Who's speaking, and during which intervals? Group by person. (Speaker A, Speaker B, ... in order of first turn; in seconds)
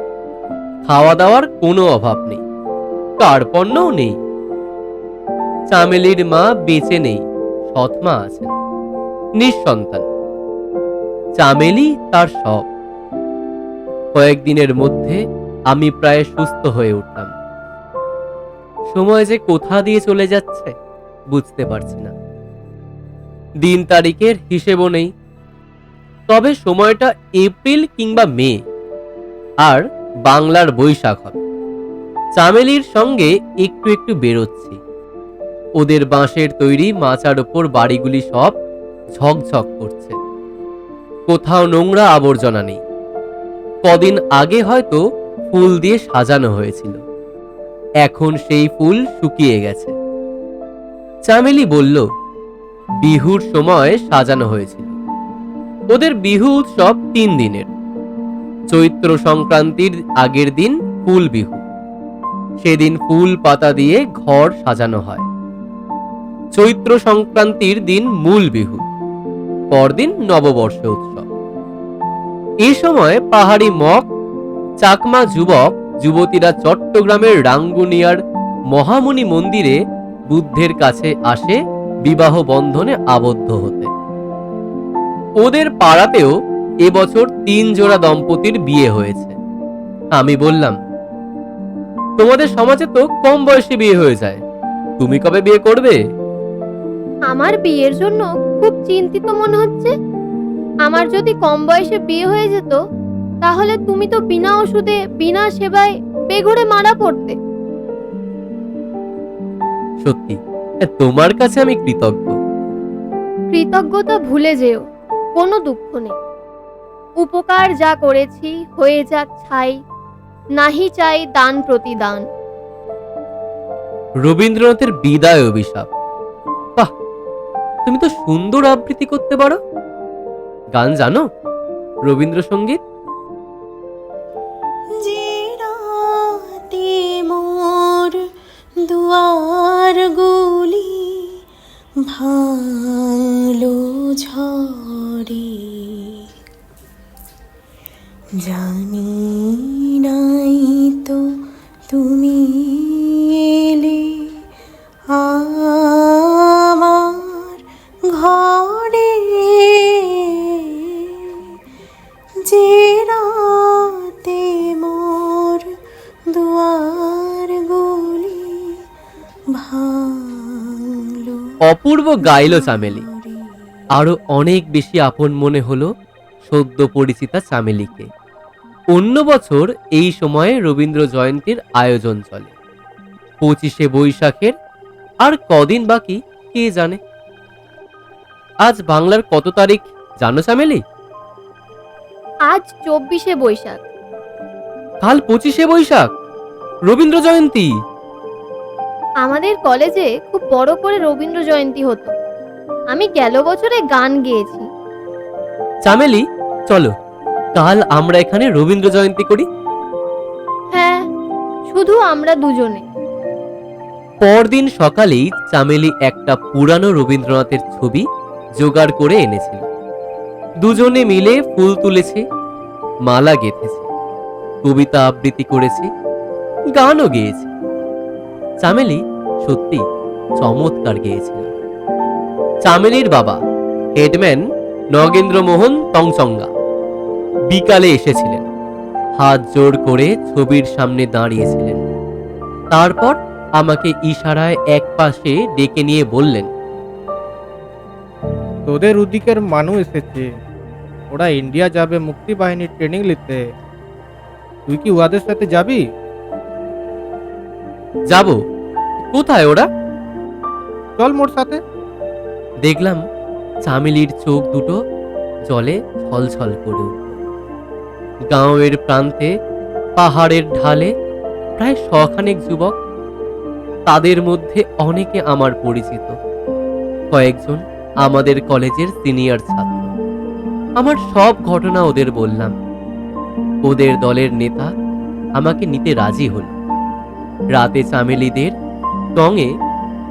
Speaker A: 0.8-2.4, 3.2-4.1, 5.7-8.6, 9.4-10.1, 11.4-12.7, 14.1-15.2, 15.7-17.3, 18.9-20.7, 21.3-22.1, 23.6-25.1, 26.3-28.6, 29.6-31.4, 32.4-34.8, 35.8-38.6, 39.1-40.1, 41.3-42.8, 43.8-45.0, 45.5-47.0, 48.0-49.9, 51.3-52.0, 53.0-54.9, 55.9-57.7, 58.7-61.6, 62.6-65.3, 66.5-68.8, 69.7-71.3, 72.6-74.1, 74.8-78.2, 78.7-79.8, 80.3-83.9, 85.4-86.3, 86.8-89.3, 90.1-90.8, 92.2-94.4, 95.0-96.0, 110.0-112.4, 124.2-125.9, 127.8-129.6, 130.7-131.2, 132.1-132.8, 171.6-173.0, 173.9-175.9, 176.4-178.1, 178.9-182.5, 183.4-184.5, 185.2-187.0, 188.6-190.8, 195.0-196.1, 196.9-197.7, 205.8-206.9, 207.6-209.4, 214.2-218.0, 218.6-219.7, 220.6-222.2, 223.1-223.8, 224.6-225.9, 226.7-227.5, 228.6-229.8, 230.4-231.5, 232.7-233.4, 233.9-234.4, 234.9-236.5, 237.5-238.5, 239.2-241.9, 242.7-246.5, 258.1-258.4, 259.1-259.6, 262.6-263.0, 263.6-264.8, 265.5-267.1, 268.3-269.3, 270.0-270.9, 271.6-272.8, 273.9-276.1, 277.1-279.9, 280.8-282.6, 283.6-284.7, 285.4-286.5, 287.5-288.5, 289.1-289.5
Speaker B: 97.3-99.9, 100.8-102.8, 103.4-107.3, 113.5-114.8, 115.3-116.1, 117.2-119.7, 120.6-122.2, 192.5-193.8, 199.2-202.1, 202.9-204.7, 210.7-211.0, 211.7-212.8
Speaker C: 135.0-138.3, 138.8-141.4, 142.0-146.3, 148.3-154.4, 155.1-161.5, 162.4-165.8, 166.3-168.8, 169.5-171.5, 172.2-173.6
Speaker D: 248.7-250.3, 251.1-253.5, 254.7-255.8, 261.0-261.6